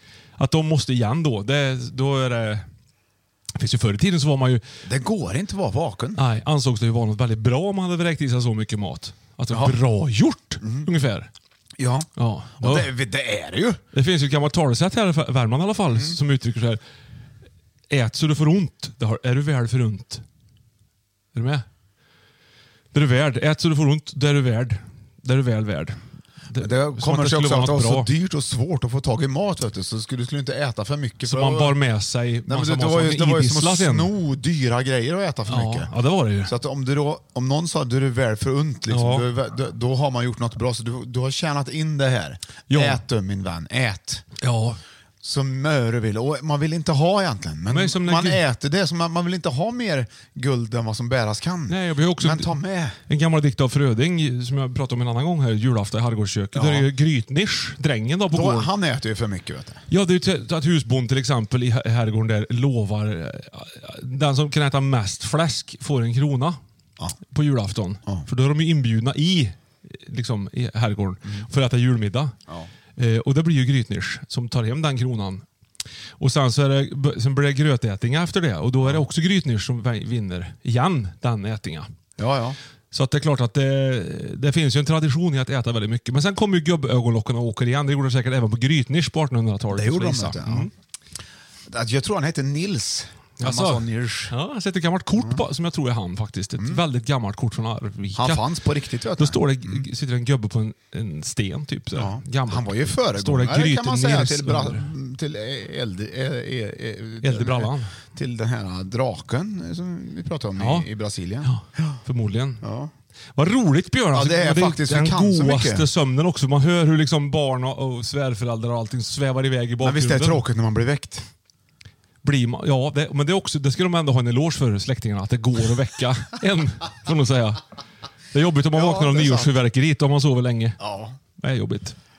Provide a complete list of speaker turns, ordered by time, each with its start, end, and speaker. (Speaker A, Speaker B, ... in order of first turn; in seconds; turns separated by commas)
Speaker A: 0.4-2.7, Speaker A: 3.6-4.6, Speaker B: 4.8-6.2, Speaker A: 6.2-11.3, Speaker B: 9.5-9.8, Speaker B: 10.6-10.9, Speaker B: 11.8-13.8, Speaker A: 12.2-12.9, Speaker A: 13.9-16.8, Speaker B: 15.9-16.2, Speaker A: 17.9-20.2, Speaker A: 21.3-21.7, Speaker A: 22.9-28.1, Speaker B: 26.6-31.8, Speaker A: 31.2-34.1, Speaker B: 32.5-35.9, Speaker A: 35.5-36.5, Speaker B: 36.4-44.2, Speaker A: 38.9-39.3, Speaker A: 42.7-43.0, Speaker A: 44.4-44.8, Speaker B: 45.2-53.0, Speaker A: 47.7-48.4, Speaker A: 51.7-52.5, Speaker A: 53.1-58.7, Speaker B: 56.5-56.9, Speaker B: 58.3-59.9, Speaker A: 59.9-66.6, Speaker A: 67.3-72.3, Speaker A: 73.0-75.5, Speaker A: 76.2-81.9, Speaker B: 82.2-82.6, Speaker A: 82.9-90.7, Speaker B: 89.7-90.7, Speaker B: 91.7-94.3, Speaker A: 93.4-98.4, Speaker B: 95.2-95.4, Speaker B: 96.6-96.8, Speaker B: 98.2-99.9, Speaker A: 99.2-104.9, Speaker B: 102.0-112.0, Speaker A: 107.2-107.9, Speaker A: 110.6-110.9, Speaker A: 111.4-112.6, Speaker B: 112.6-112.9, Speaker A: 113.4-120.4, Speaker B: 114.1-115.9, Speaker B: 119.8-121.2, Speaker A: 122.2-127.6, Speaker A: 128.3-130.8, Speaker B: 128.7-129.6, Speaker B: 130.8-131.2, Speaker A: 131.4-132.0